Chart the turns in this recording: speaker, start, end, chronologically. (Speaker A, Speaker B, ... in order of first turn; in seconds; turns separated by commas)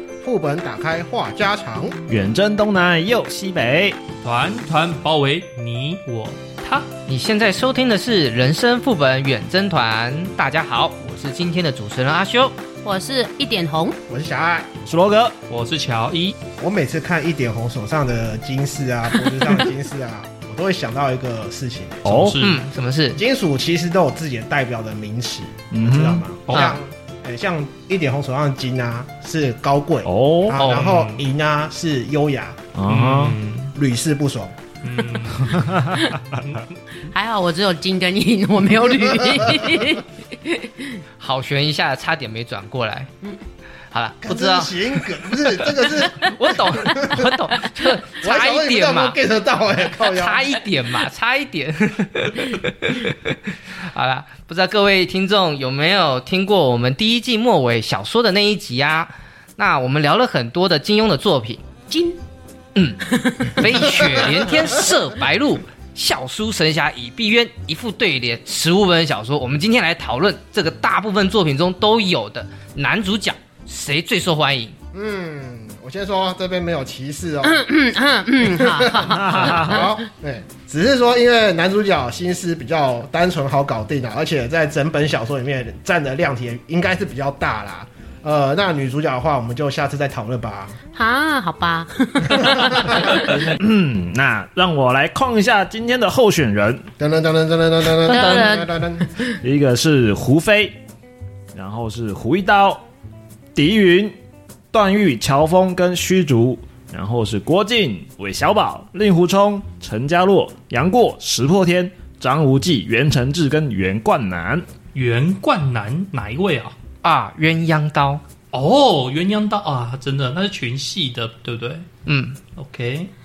Speaker A: 0.2-2.0, Speaker B: 2.1-4.0, Speaker C: 4.2-6.9, Speaker D: 7.1-12.5, Speaker E: 12.8-14.0, Speaker A: 14.1-14.7, Speaker B: 14.8-15.3, Speaker C: 15.5-16.4, Speaker A: 16.6-22.3, Speaker B: 22.1-22.4, Speaker C: 22.1-22.6, Speaker D: 22.4-23.2, Speaker A: 23.1-32.6, Speaker B: 25.7-26.2, Speaker C: 26.5-26.8, Speaker B: 30.1-30.6, Speaker C: 30.6-31.2, Speaker D: 30.6-30.9, Speaker B: 32.8-33.4, Speaker C: 32.9-33.7, Speaker A: 33.8-34.5, Speaker C: 34.8-35.6, Speaker B: 35.4-36.1, Speaker C: 36.4-36.6, Speaker E: 37.1-41.0, Speaker D: 41.2-43.1, Speaker D: 43.9-49.2, Speaker A: 44.2-47.3, Speaker A: 48.2-50.5, Speaker D: 50.0-53.4, Speaker D: 53.9-61.6, Speaker E: 61.9-62.2, Speaker D: 62.8-74.8, Speaker E: 63.2-63.9, Speaker A: 74.9-77.7, Speaker E: 77.4-79.9, Speaker A: 78.4-90.8, Speaker B: 79.1-79.9, Speaker E: 90.9-93.3, Speaker A: 92.4-93.0, Speaker B: 93.3-96.9, Speaker A: 97.0-99.1, Speaker D: 98.1-98.5, Speaker E: 98.1-99.0, Speaker B: 99.4-100.8, Speaker B: 101.5-102.8, Speaker B: 103.5-104.1, Speaker B: 104.7-114.7, Speaker C: 115.0-116.8, Speaker D: 117.0-118.2, Speaker C: 118.5-121.9, Speaker D: 122.1-122.4, Speaker C: 122.6-123.1